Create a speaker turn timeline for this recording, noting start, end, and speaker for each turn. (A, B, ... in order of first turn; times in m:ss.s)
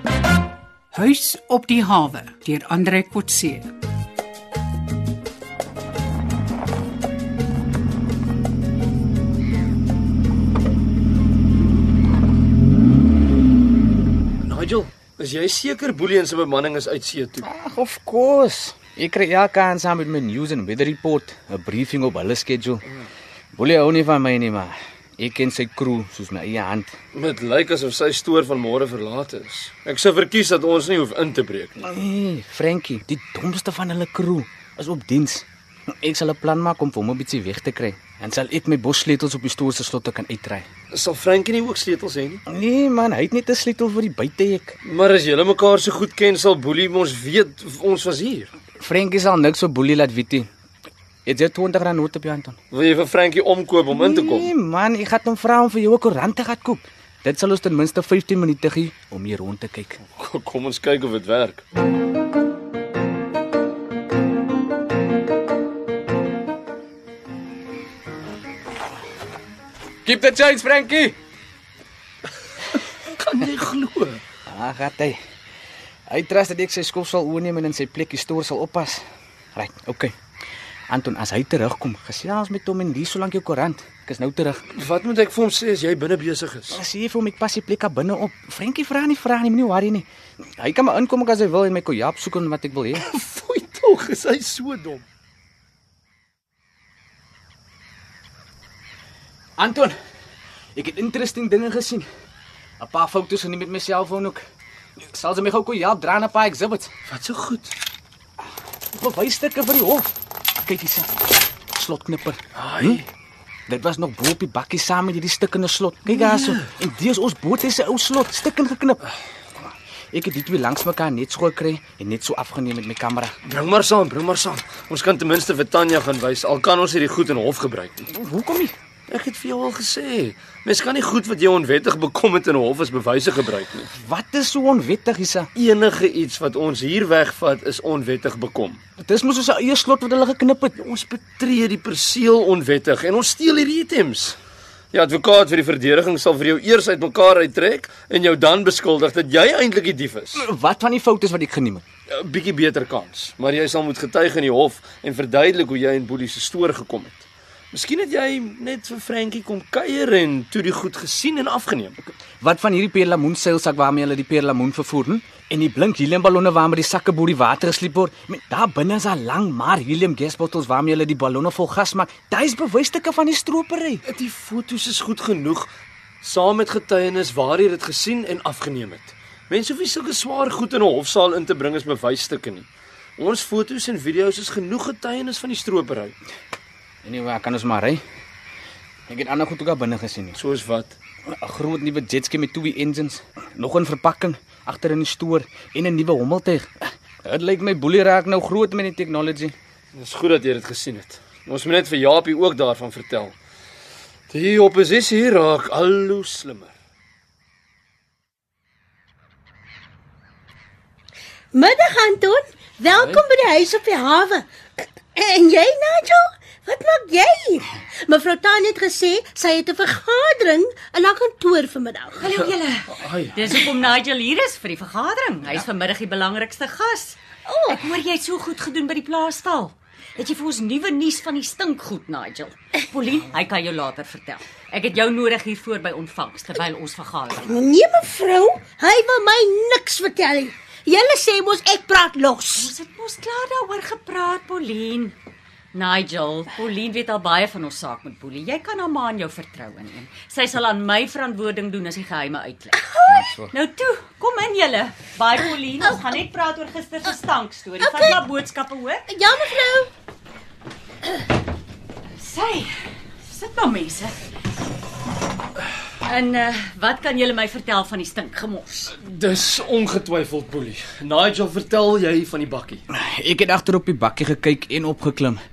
0:00.9-0:03.7 A
0:14.4-0:17.5 B
0:17.4-0:22.9 C
0:23.5-0:26.9 C
0:27.1-0:31.8 B
0:31.8-0:35.5 C
0:36.0-0:40.7 C
0:40.9-0:42.4 B
0:42.5-0:44.8 C
0:44.8-0:48.5 B
0:48.8-0:50.5 C
0:51.3-0:52.6 C
0:52.7-0:54.5 B
0:53.9-1:00.0 C
1:00.0-1:01.6 B
1:10.0-1:11.1 C
1:13.2-1:14.2 B
1:14.5-1:15.2 C
1:16.1-1:19.0 C
1:19.6-1:20.1 C
1:20.9-1:24.6 C
1:24.7-1:26.8 B
1:26.7-1:30.0 C
1:30.6-1:33.0 C
1:32.9-1:35.0 B
1:39.6-1:39.9 C
1:40.7-1:42.0 C
1:42.8-1:44.4 C
1:45.0-1:46.9 C
1:47.1-1:47.7 B
1:48.9-1:51.1 C
1:51.7-1:53.0 C
1:52.6-1:53.0 B
1:53.7-1:59.0 C
1:56.1-1:56.6 B
2:00.1-2:03.3 C
2:03.4-2:08.1 B
2:08.1-2:08.7 C
2:09.1-2:13.9 B
2:13.9-2:15.5 C
2:15.5-2:18.8 B
2:19.0-2:20.8 C
2:20.8-2:24.4 B
2:24.9-2:30.4 B
2:30.3-2:31.8 C
2:32.1-2:42.0 B
2:42.4-2:54.0 C
2:54.1-2:55.7 B
2:56.2-3:06.2 B
3:07.0-3:08.0 C
3:09.1-3:10.4 C
3:10.4-3:11.0 B
3:11.3-3:19.5 C
3:19.9-3:23.4 B
3:24.3-3:26.7 B
3:31.5-3:42.3 D
3:32.9-3:33.3 B
3:42.2-3:47.2 E
3:42.9-3:43.8 B
3:47.5-3:47.7 D
3:47.7-3:57.5 E
3:57.3-4:02.7 D
4:02.5-4:05.1 E
4:05.7-4:12.8 E
4:12.8-4:13.3 D
4:13.1-4:13.5 C
4:13.5-4:19.1 E
4:17.8-4:18.2 D
4:19.1-4:19.9 D
4:22.2-4:22.7 E
4:23.3-4:24.1 E
4:26.0-4:28.9 E
4:28.9-4:32.8 B
4:32.9-4:35.4 C